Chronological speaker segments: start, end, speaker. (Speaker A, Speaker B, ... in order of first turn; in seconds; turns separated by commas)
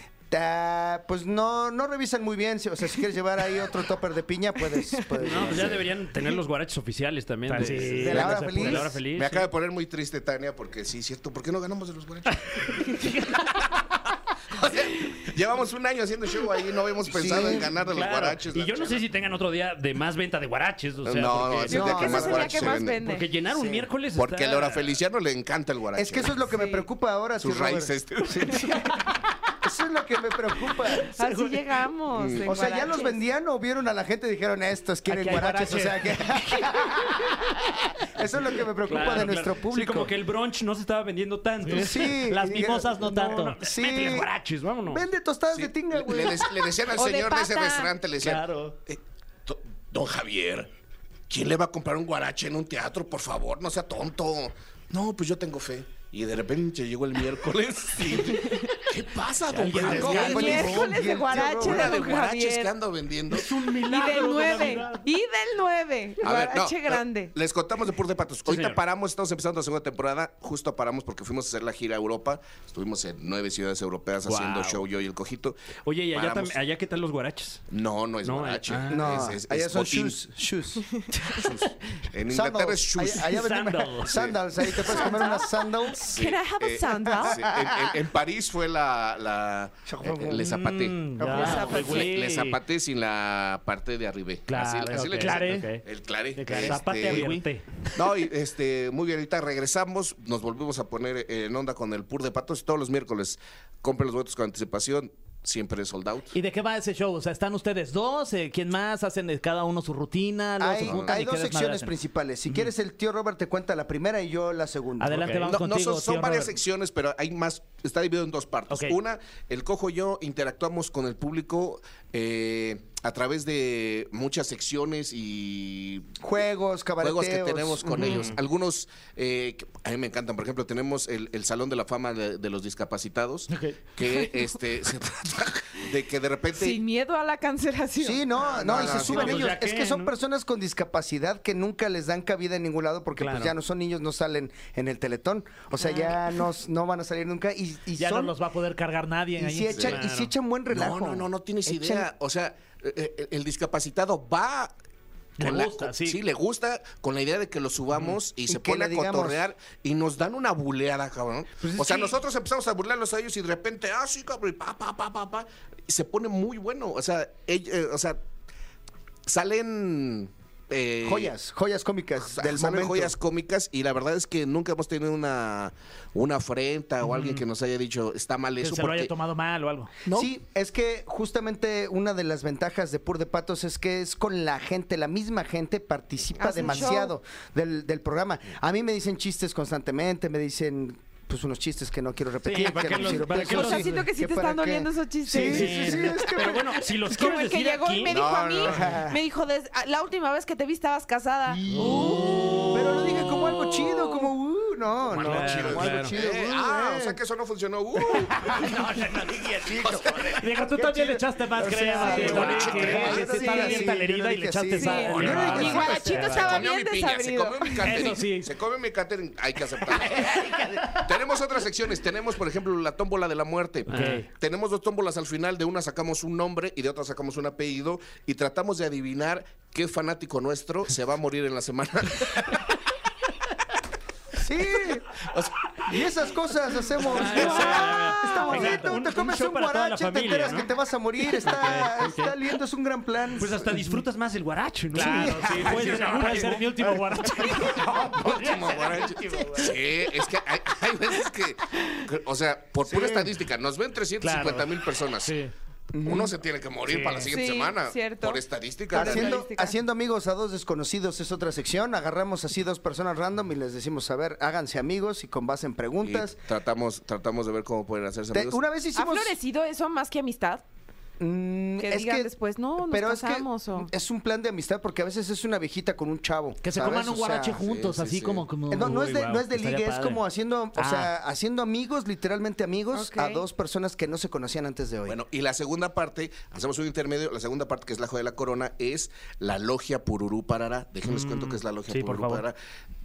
Speaker A: 0.3-5.8, Speaker B: 4.7-5.1, Speaker C: 5.2-9.5, Speaker D: 7.5-8.9, Speaker E: 7.6-8.1, Speaker A: 8.0-8.9, Speaker E: 9.0-13.8, Speaker E: 14.5-19.1, Speaker A: 17.1-17.7, Speaker C: 17.8-24.9, Speaker E: 21.0-23.0, Speaker B: 21.7-23.2, Speaker A: 21.7-22.5, Speaker E: 24.1-26.4, Speaker A: 25.9-28.8, Speaker B: 26.5-26.9, Speaker E: 27.4-28.9, Speaker A: 29.6-31.1, Speaker B: 31.1-33.2, Speaker E: 32.1-32.5, Speaker A: 32.4-40.1, Speaker D: 35.1-36.3, Speaker C: 38.9-42.2, Speaker D: 41.6-43.6, Speaker A: 41.7-44.3, Speaker C: 43.1-45.1, Speaker A: 44.9-46.5, Speaker E: 45.5-50.7, Speaker B: 46.9-47.9, Speaker D: 48.2-48.8, Speaker E: 51.3-63.5, Speaker B: 58.3-58.9, Speaker D: 59.5-60.9, Speaker A: 59.8-62.1, Speaker B: 60.0-62.7, Speaker C: 63.4-65.0, Speaker D: 63.6-64.9, Speaker B: 63.8-67.3, Speaker E: 66.2-76.6, Speaker C: 68.5-68.8, Speaker C: 74.3-74.8, Speaker C: 75.8-77.6, Speaker E: 77.7-80.2, Speaker C: 78.2-79.3, Speaker A: 78.9-81.5, Speaker B: 80.9-81.4, Speaker E: 81.3-83.2, Speaker A: 82.3-86.1, Speaker C: 83.2-84.2, Speaker E: 84.1-85.2, Speaker B: 84.9-87.5, Speaker E: 86.0-97.4, Speaker A: 87.2-87.9, Speaker A: 89.9-90.6, Speaker D: 90.4-92.6, Speaker A: 91.2-92.1, Speaker B: 91.3-92.2, Speaker D: 94.5-95.8, Speaker C: 94.9-95.8, Speaker D: 96.4-97.6, Speaker C: 96.7-97.5, Speaker E: 98.0-106.3, Speaker D: 106.3-111.9, Speaker A: 110.6-115.5, Speaker E: 110.9-111.2, Speaker D: 115.0-116.6, Speaker E: 115.4-126.1, Speaker D: 118.7-119.0, Speaker A: 126.2-128.3, Speaker E: 127.0-136.8, Speaker C: 128.0-128.4, Speaker D: 133.5-133.8, Speaker B: 136.6-138.3, Speaker A: 138.0-148.3, Speaker E: 138.5-139.4, Speaker C: 138.7-140.1, Speaker D: 143.2-143.5, Speaker B: 145.8-146.2, Speaker D: 148.0-149.8, Speaker A: 149.4-152.1, Speaker E: 149.7-150.0, Speaker C: 149.8-150.3, Speaker E: 150.7-154.7, Speaker D: 155.4-156.2, Speaker E: 155.4-168.2, Speaker A: 158.5-159.4, Speaker A: 161.6-162.1, Speaker E: 169.3-171.3, Speaker A: 171.0-173.2, Speaker E: 172.3-179.1, Speaker D: 177.0-177.4, Speaker D: 178.6-179.9, Speaker E: 180.1-180.3, Speaker A: 180.1-196.7, Speaker B: 186.4-187.1, Speaker C: 192.4-194.1, Speaker B: 193.0-202.7, Speaker C: 195.3-198.2, Speaker E: 198.1-198.9, Speaker A: 198.6-199.2, Speaker A: 201.5-207.2, Speaker E: 201.8-202.1, Speaker C: 201.9-203.7, Speaker B: 203.9-204.3, Speaker E: 205.1-210.4, Speaker C: 205.2-206.1, Speaker A: 208.4-208.7, Speaker A: 209.6-216.6, Speaker D: 210.4-216.5, Speaker B: 212.0-213.9, Speaker E: 212.1-213.3, Speaker B: 214.8-218.2, Speaker E: 215.1-232.6, Speaker C: 215.2-215.5, Speaker D: 217.8-218.5, Speaker D: 223.9-224.3, Speaker C: 223.9-224.2, Speaker A: 234.4-235.1, Speaker E: 235.2-235.5, Speaker A: 235.9-243.6, Speaker C: 237.0-240.7, Speaker B: 237.5-238.8, Speaker C: 241.3-242.3, Speaker C: 243.4-246.7, Speaker D: 243.7-244.0, Speaker A: 244.9-246.0, Speaker D: 244.9-248.9, Speaker E: 245.5-246.5, Speaker E: 247.5-255.4, Speaker A: 247.7-248.5, Speaker A: 252.8-253.3, Speaker D: 254.2-255.5, Speaker A: 255.9-256.3, Speaker E: 256.0-259.4, Speaker C: 256.9-257.3, Speaker B: 257.3-259.8, Speaker A: 258.9-266.4, Speaker E: 266.0-268.6, Speaker A: 268.3-269.4, Speaker B: 268.9-270.6, Speaker A: 271.2-277.6, Speaker B: 271.8-273.9, Speaker D: 276.6-280.2, Speaker E: 277.5-278.5, Speaker A: 278.7-285.2, Speaker D: 280.8-281.1, Speaker B: 282.9-283.4, Speaker E: 285.1-292.6, Speaker C: 291.1-291.6, Speaker D: 291.9-292.4